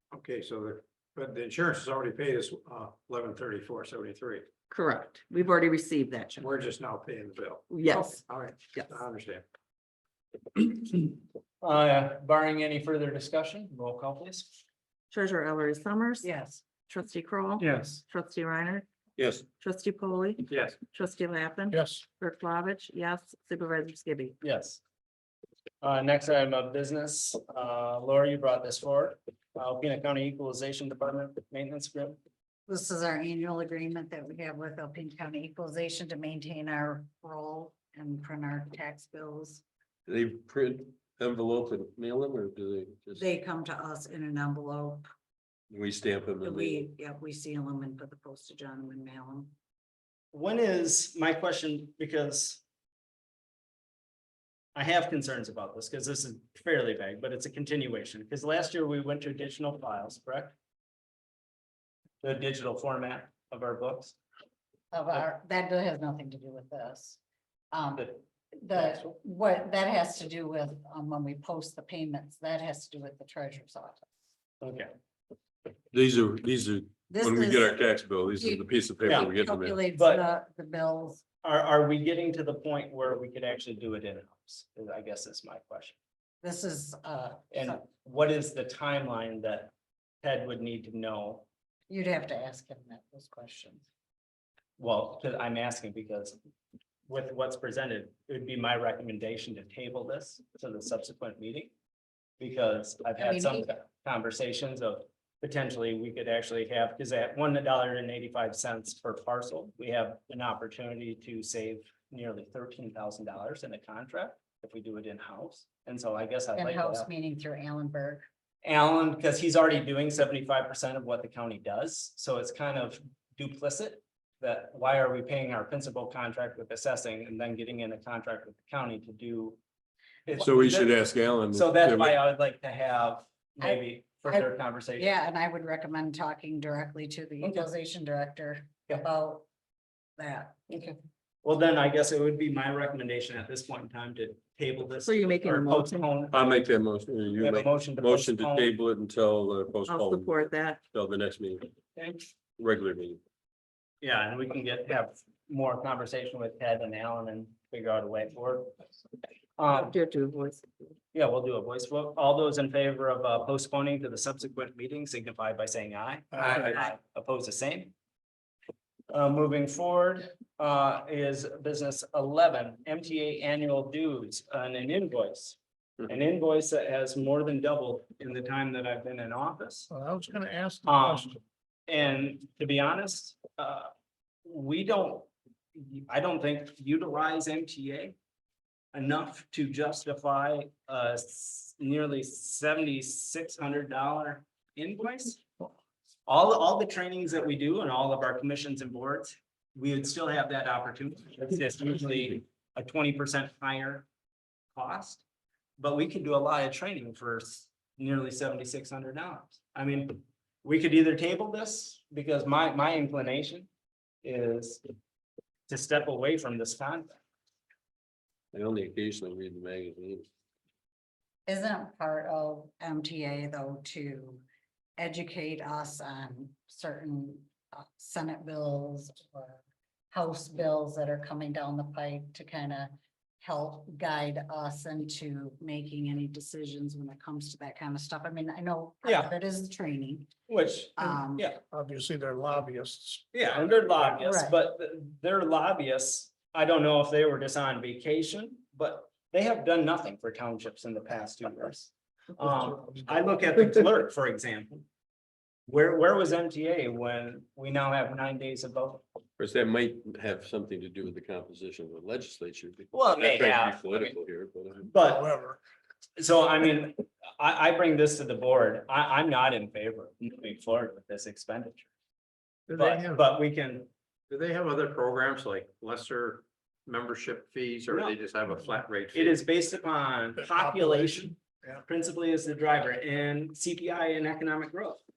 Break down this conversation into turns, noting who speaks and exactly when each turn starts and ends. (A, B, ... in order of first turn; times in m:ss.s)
0:00.1-0:04.5 A
0:04.7-0:06.5 B
0:06.4-0:09.4 A
0:07.7-0:08.2 B
0:10.6-0:14.6 C
0:15.1-0:16.3 B
0:16.2-0:16.6 D
0:16.8-0:18.8 B
0:17.6-0:18.0 C
0:19.2-0:19.4 E
0:19.6-0:24.3 B
0:20.5-0:20.8 A
0:21.7-0:22.0 E
0:24.4-0:24.8 C
0:25.8-0:32.2 C
0:32.7-0:39.6 D
0:40.0-0:43.2 E
0:43.2-0:45.0 D
0:45.7-0:46.8 E
0:46.4-0:49.5 D
0:50.3-0:52.6 C
0:54.7-1:00.5 C
1:02.2-1:04.2 C
1:04.9-1:07.2 D
1:07.7-1:14.0 D
1:08.7-1:09.0 C
1:14.6-1:14.9 C
1:15.9-1:19.8 E
1:17.1-1:21.2 D
1:19.0-1:19.3 C
1:19.9-1:20.2 C
1:21.4-1:25.9 C
1:26.4-1:27.8 D
1:27.5-1:31.4 C
1:31.9-1:33.8 D
1:34.8-1:36.4 C
1:37.1-1:41.7 C
1:42.4-1:57.1 C
1:43.2-1:43.7 D
1:56.5-1:58.2 D
1:58.6-2:09.6 C
2:10.2-2:11.0 C
2:10.4-2:12.2 E
2:11.5-2:15.1 C
2:13.6-2:19.4 D
2:17.4-2:17.7 C
2:20.2-2:20.9 D
2:20.7-2:26.4 C
2:25.0-2:26.0 B
2:26.3-2:30.3 E
2:27.4-2:28.7 C
2:29.9-2:30.8 B
2:30.9-2:31.7 E
2:32.0-2:32.3 C
2:32.6-2:33.2 E
2:34.0-2:38.7 C
2:39.6-2:39.9 C
2:39.7-2:40.6 B
2:41.1-2:47.9 C
2:49.1-2:59.9 C
3:00.0-3:01.3 F
3:00.8-3:01.4 C
3:01.9-3:03.9 C
3:04.4-3:08.2 C
3:08.9-3:15.4 C
3:16.3-3:24.0 C
3:24.7-3:25.2 C
3:25.8-3:33.7 C
3:34.2-3:34.8 C
3:35.7-3:37.2 C
3:38.5-3:40.3 E
3:41.5-3:44.4 D
3:45.0-3:49.6 D
3:50.1-4:00.3 D
3:59.0-3:59.3 C
4:00.5-4:01.6 C
4:01.0-4:01.5 D
4:01.7-4:03.2 F
4:03.3-4:14.8 C
4:04.2-4:04.5 D
4:15.7-4:19.0 C
4:19.4-4:25.2 E
4:22.9-4:24.2 C
4:24.9-4:25.3 C
4:25.3-4:25.6 F
4:26.2-4:31.9 C
4:32.7-4:33.2 A
4:32.7-4:33.9 C
4:34.3-4:39.4 A
4:37.9-4:38.2 C
4:39.1-4:45.0 C